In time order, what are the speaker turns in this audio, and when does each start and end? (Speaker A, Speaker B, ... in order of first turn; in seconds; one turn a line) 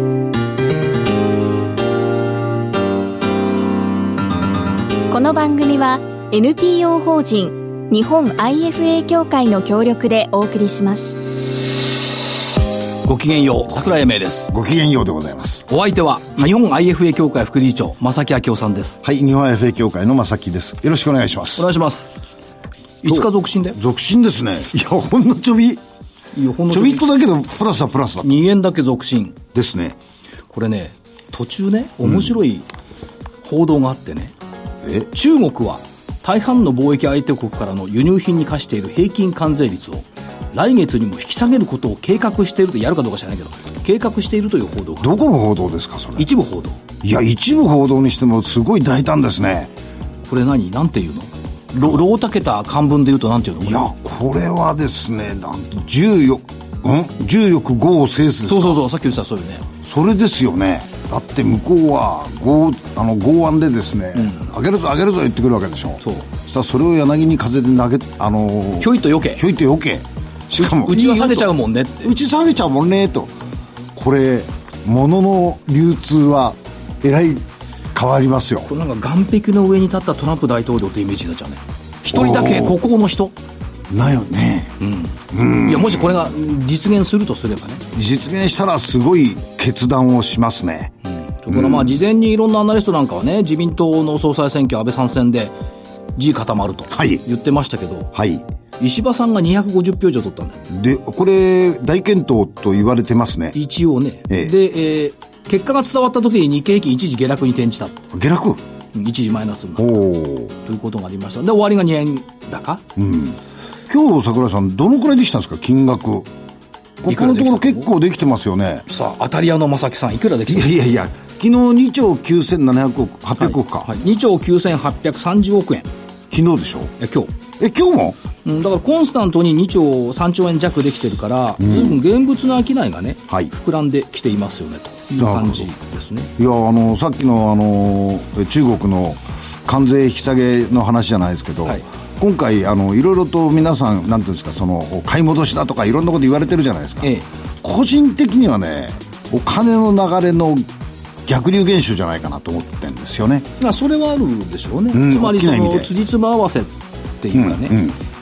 Speaker A: 5.1-11.2
Speaker B: 13.0-14.5
Speaker C: 14.5-15.7
Speaker B: 15.7-19.0
Speaker C: 19.0-21.7
Speaker B: 21.6-22.1
Speaker B: 23.0-23.8
Speaker C: 23.1-25.8
Speaker B: 26.3-27.1
Speaker C: 26.7-28.3
Speaker B: 28.2-29.4
Speaker C: 29.5-30.0
Speaker B: 30.5-32.7
Speaker B: 33.4-34.3
Speaker C: 34.8-35.1
Speaker B: 35.1-45.2
Speaker C: 45.0-46.3
Speaker B: 46.2-46.8
Speaker C: 47.0-49.7
Speaker B: 50.3-53.9
Speaker C: 51.8-52.0
Speaker C: 53.6-58.8
Speaker B: 58.5-59.7
Speaker C: 59.8-73.3
Speaker B: 64.2-64.5
Speaker B: 66.0-66.3
Speaker B: 68.8-69.4
Speaker B: 70.6-72.2
Speaker C: 74.0-78.7
Speaker B: 78.7-83.3
Speaker C: 82.1-82.8
Speaker C: 83.9-84.8
Speaker B: 84.8-87.8
Speaker C: 85.3-86.3
Speaker C: 87.9-90.9
Speaker B: 91.0-95.5
Speaker C: 91.5-92.0
Speaker B: 96.2-98.1
Speaker C: 96.9-97.2
Speaker C: 98.1-98.5
Speaker B: 98.8-100.7
Speaker C: 100.7-103.6
Speaker B: 103.5-108.0
Speaker C: 104.3-104.5
Speaker C: 108.1-108.6
Speaker B: 109.0-110.0
Speaker C: 109.8-110.6
Speaker B: 110.6-112.8
Speaker C: 113.0-116.3
Speaker C: 117.0-118.9
Speaker B: 117.1-117.9
Speaker B: 118.9-120.8
Speaker C: 120.5-123.9
Speaker B: 123.4-125.9
Speaker C: 126.3-126.9
Speaker B: 127.0-127.3
Speaker C: 127.6-128.2
Speaker B: 128.4-136.3
Speaker C: 131.6-132.0
Speaker C: 135.2-135.7
Speaker C: 136.4-147.1
Speaker B: 147.0-147.3
Speaker C: 147.6-150.7
Speaker C: 151.3-153.5
Speaker B: 153.6-157.8
Speaker C: 154.9-155.9
Speaker C: 157.3-158.0